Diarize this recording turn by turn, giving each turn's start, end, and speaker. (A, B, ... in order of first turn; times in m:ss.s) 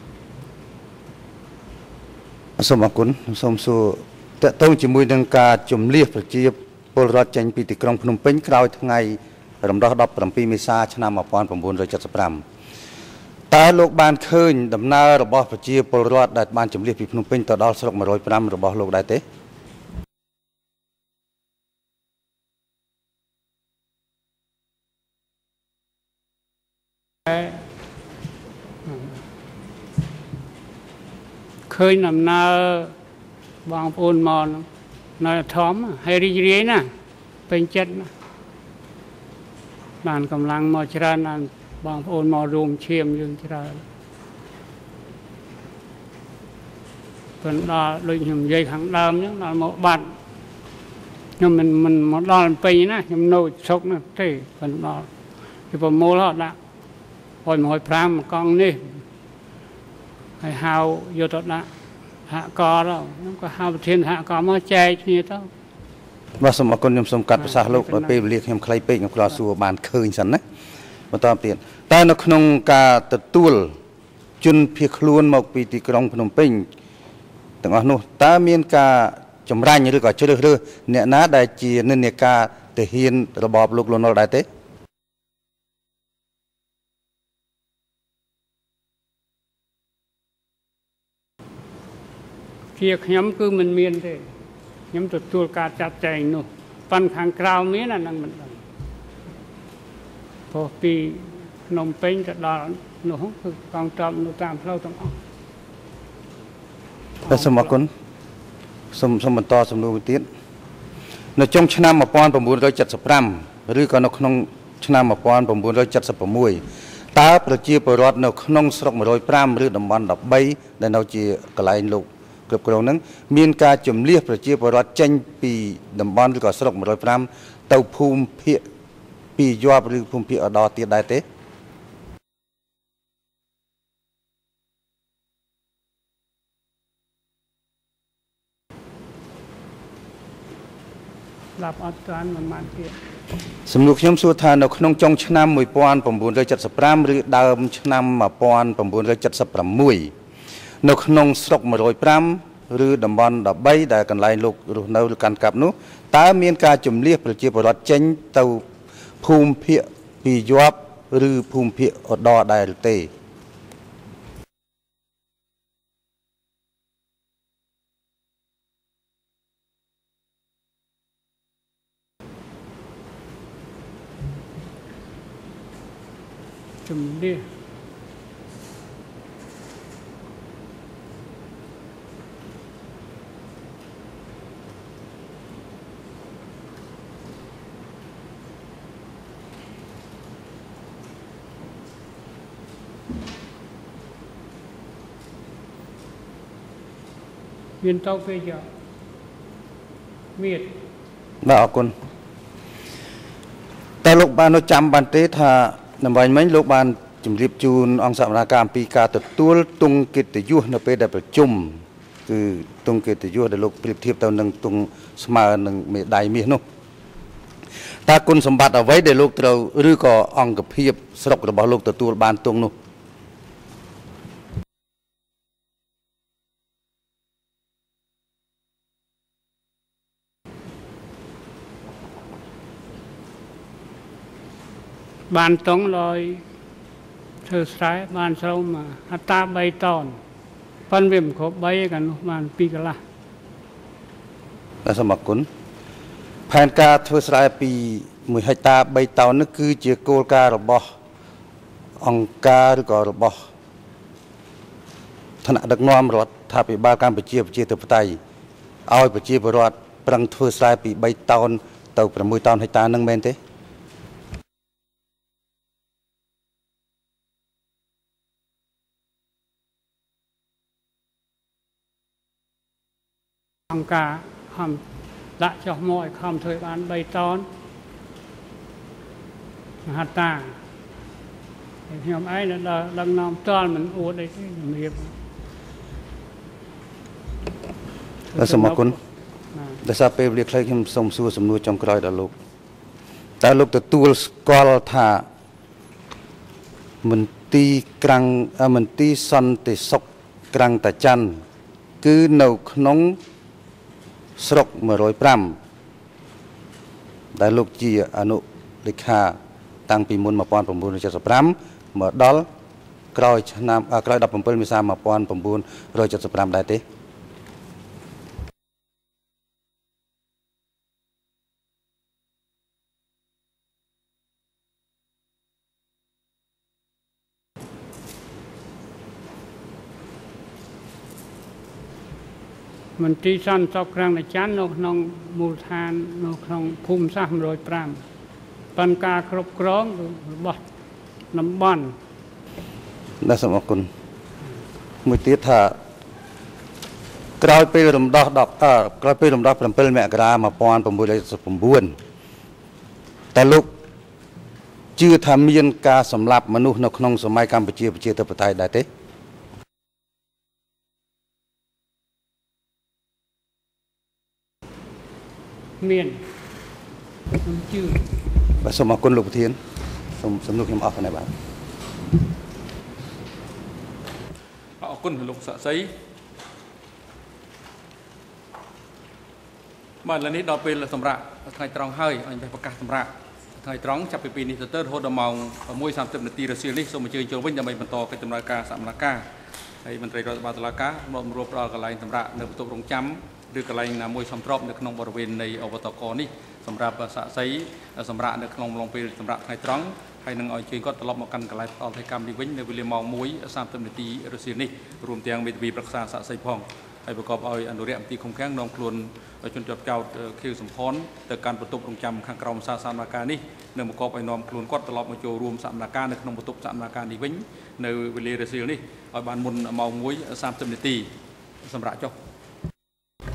0:02.6-0:12.4 A
0:13.5-0:19.2 A
0:27.3-0:27.6 B
0:28.9-0:29.2 B
0:31.7-0:32.9 B
0:33.7-0:34.7 B
0:35.2-0:36.9 B
0:37.5-0:38.1 B
0:40.0-0:43.8 B
0:47.4-0:50.1 B
0:51.4-0:55.1 B
0:55.7-0:56.6 B
0:57.4-0:59.0 B
1:00.4-1:01.7 B
1:02.3-1:05.5 B
1:06.4-1:10.4 A
1:07.4-1:08.2 B
1:11.1-1:13.7 A
1:14.4-1:16.7 A
1:17.6-1:24.4 A
1:32.8-1:34.2 B
1:34.9-1:38.6 B
1:40.5-1:45.2 B
1:47.3-1:47.9 A
1:47.3-1:47.7 B
1:48.9-1:50.3 A
1:51.4-2:08.6 A
2:09.4-2:11.2 A
2:21.6-2:23.0 B
2:23.7-2:30.1 A
2:30.8-2:38.6 A
2:39.2-2:43.1 A
2:56.8-2:57.5 B
3:17.8-3:18.7 B
3:20.4-3:20.7 B
3:21.4-3:21.9 A
3:24.0-3:36.6 A
3:38.1-3:42.7 A
3:55.3-3:56.4 B
3:57.5-4:00.2 B
4:00.9-4:03.0 B
4:04.8-4:05.5 A
4:06.5-4:10.9 A
4:12.0-4:13.4 A
4:15.4-4:18.2 A
4:18.9-4:23.4 A
4:33.7-4:34.8 B
4:35.4-4:37.5 B
4:39.9-4:40.6 B
4:41.9-4:45.1 B
4:48.4-4:49.0 B
4:48.4-4:49.0 A
4:49.8-4:52.3 A
4:53.4-4:55.3 A
4:57.0-5:01.4 A
5:02.0-5:03.2 A
5:04.4-5:05.6 A
5:07.4-5:09.4 A
5:09.9-5:12.5 A
5:13.2-5:16.8 A
5:33.0-5:38.0 B
5:38.8-5:40.6 B
5:41.3-5:42.0 B
5:43.2-5:43.9 A
5:45.0-5:45.8 A
5:47.4-5:52.0 A
5:53.3-5:53.7 A
5:55.0-5:58.9 A
6:05.8-6:06.2 B
6:07.4-6:08.0 B
6:08.6-6:09.6 A
6:10.2-6:11.3 A
6:14.8-6:15.9 C
6:20.0-6:29.2 C
6:29.8-7:01.1 C
7:01.6-7:02.1 C